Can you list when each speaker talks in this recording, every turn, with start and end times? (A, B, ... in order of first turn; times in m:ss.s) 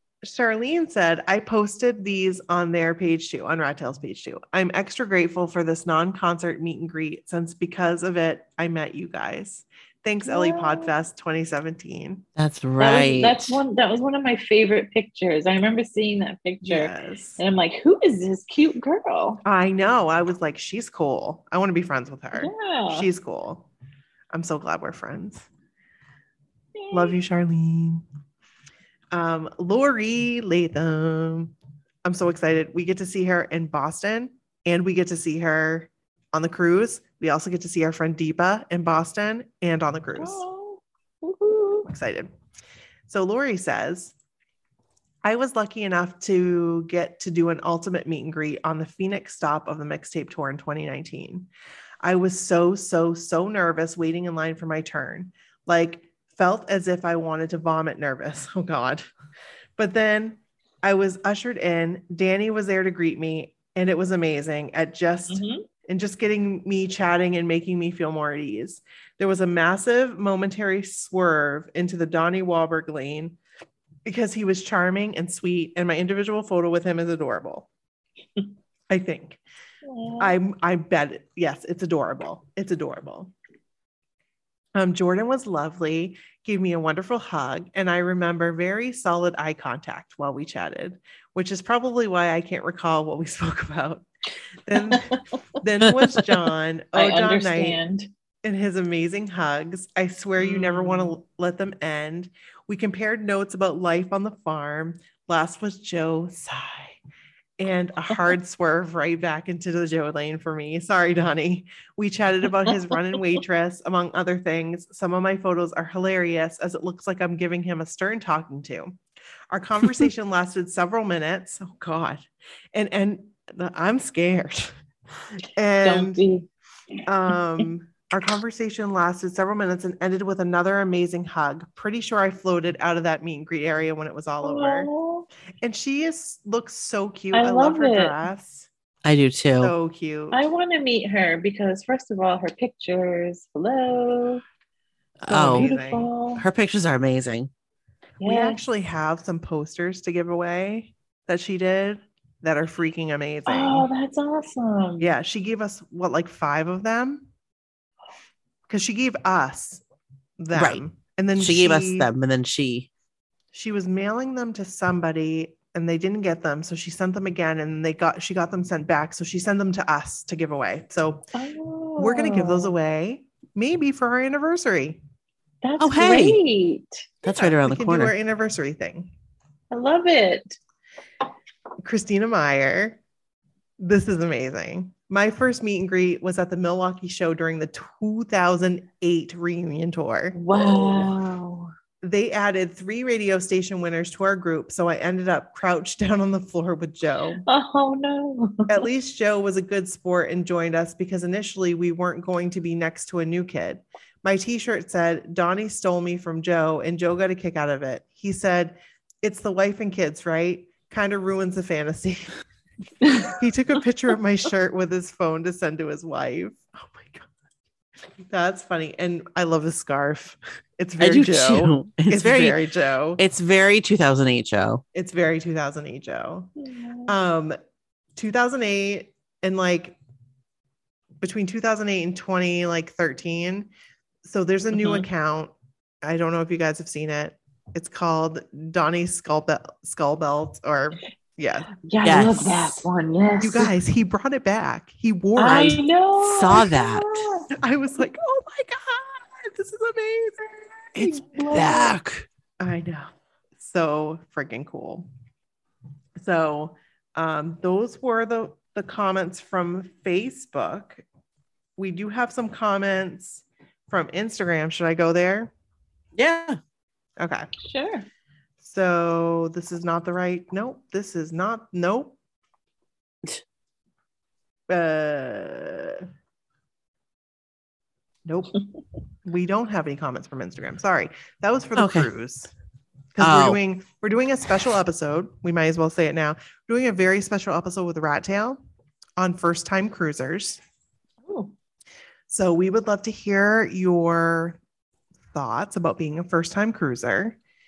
0:00.2-0:12.2 A
0:10.2-0:10.9 B
0:12.4-0:13.6 C
0:12.8-0:19.4 B
0:16.6-0:17.4 A
0:19.4-0:23.7 A
0:22.3-0:23.1 B
0:24.3-0:25.5 A
0:26.8-0:27.2 B
0:26.9-0:28.0 A
0:29.1-0:31.5 A
0:32.0-0:40.4 A
0:40.2-0:41.9 B
0:41.8-0:42.3 A
0:43.1-0:44.1 A
0:45.2-0:51.5 A
0:52.0-0:59.0 A
0:59.8-1:13.4 A
1:05.3-1:05.6 B
1:14.0-1:17.7 A
1:18.9-1:19.4 A
1:19.8-1:20.3 B
1:20.2-1:23.3 A
1:24.7-1:34.1 A
1:34.6-1:37.8 A
1:34.8-1:35.2 B
1:36.9-1:38.1 B
1:38.4-1:47.0 A
1:40.4-1:41.1 B
1:47.6-1:59.0 A
1:59.5-2:04.7 A
2:05.4-2:06.2 A
2:05.8-2:06.5 B
2:07.1-2:14.9 A
2:14.4-2:15.3 B
2:15.6-2:18.7 A
2:17.3-2:18.2 B
2:19.0-2:19.7 C
2:19.6-2:20.4 A
2:20.3-2:24.4 B
2:25.2-2:25.7 C
2:25.3-2:26.4 B
2:25.3-2:26.1 A
2:26.3-2:27.5 C
2:28.2-2:28.6 B
2:28.2-2:33.9 A
2:33.5-2:35.1 B
2:35.0-2:37.3 A
2:38.7-2:39.8 A
2:40.4-2:42.1 A
2:40.5-2:40.8 C
2:41.4-2:42.9 C
2:43.5-2:51.3 A
2:51.3-2:52.7 B
2:52.0-2:55.0 A
2:55.6-2:57.0 B
2:55.8-2:56.4 C
2:57.2-2:58.1 C
2:57.2-2:59.1 A
2:59.7-3:00.6 B
3:01.8-3:03.0 A
3:03.8-3:11.1 A
3:10.3-3:11.7 B
3:12.0-3:17.4 A
3:17.4-3:18.8 B
3:18.7-3:32.4 A
3:33.0-3:37.2 A
3:33.0-3:33.3 B
3:38.2-3:43.2 A
3:41.0-3:42.6 C
3:43.2-3:44.8 C
3:44.9-3:46.5 A
3:46.6-3:47.1 B
3:47.1-3:47.6 A
3:48.2-3:50.0 A
3:51.2-3:53.7 A
3:54.2-4:01.7 A
4:01.8-4:03.7 B
4:02.0-4:02.8 C
4:03.4-4:05.8 A
4:05.4-4:07.5 B
4:05.4-4:07.3 C
4:07.6-4:11.8 A
4:11.0-4:12.3 C
4:11.0-4:11.9 B
4:12.6-4:15.1 A
4:16.2-4:21.0 A
4:21.8-4:25.5 A
4:26.2-4:26.6 C
4:27.2-4:27.5 A
4:27.6-4:28.1 B
4:28.6-4:32.2 A
4:34.7-4:36.0 A
4:38.2-4:38.6 A
4:39.2-4:42.5 A
4:41.8-4:42.1 C
4:43.1-4:48.6 A
4:43.2-4:43.6 C
4:49.2-4:50.6 A
4:51.2-4:51.5 B
4:52.3-4:54.6 A
4:55.3-4:57.4 A